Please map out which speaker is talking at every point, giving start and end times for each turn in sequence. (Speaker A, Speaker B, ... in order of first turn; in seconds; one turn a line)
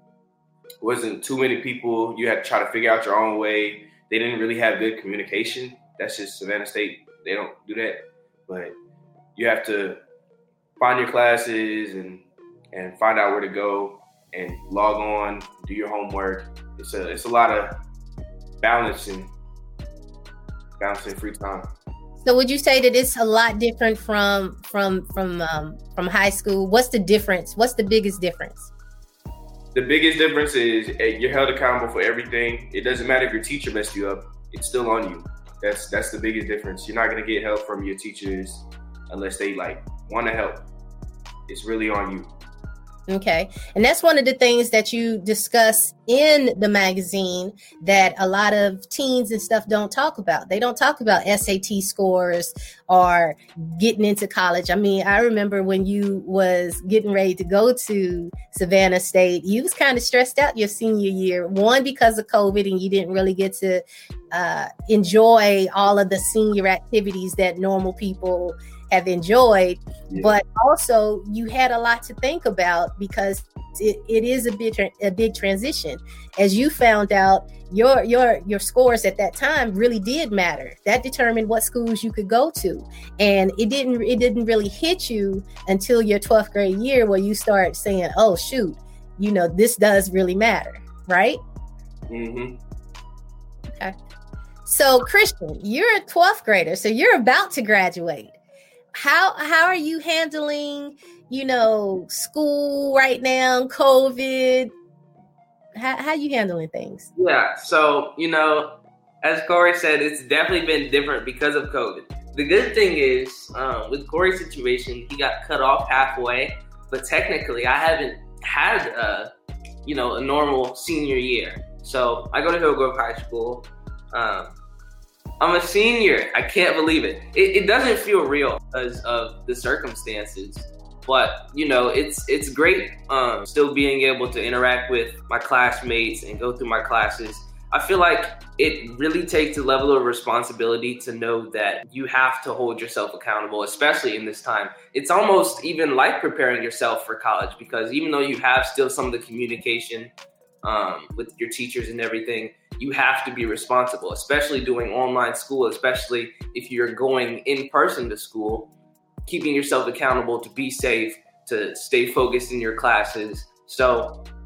Speaker A: 0.8-8.8
Speaker A: 9.4-10.0
Speaker A: 10.8-17.8
Speaker A: 18.6-19.3
Speaker A: 20.8-21.7
Speaker B: 22.2-28.7
Speaker A: 29.7-40.7
Speaker A: 41.5-42.3
Speaker B: 43.1-91.4
Speaker A: 70.1-70.3
Speaker A: 92.1-92.6
Speaker B: 94.7-98.4
Speaker B: 98.9-104.7
Speaker B: 105.8-107.1
Speaker C: 107.2-119.3
Speaker C: 119.8-124.6
Speaker C: 125.4-150.1
Speaker C: 150.6-158.7
Speaker C: 159.3-164.2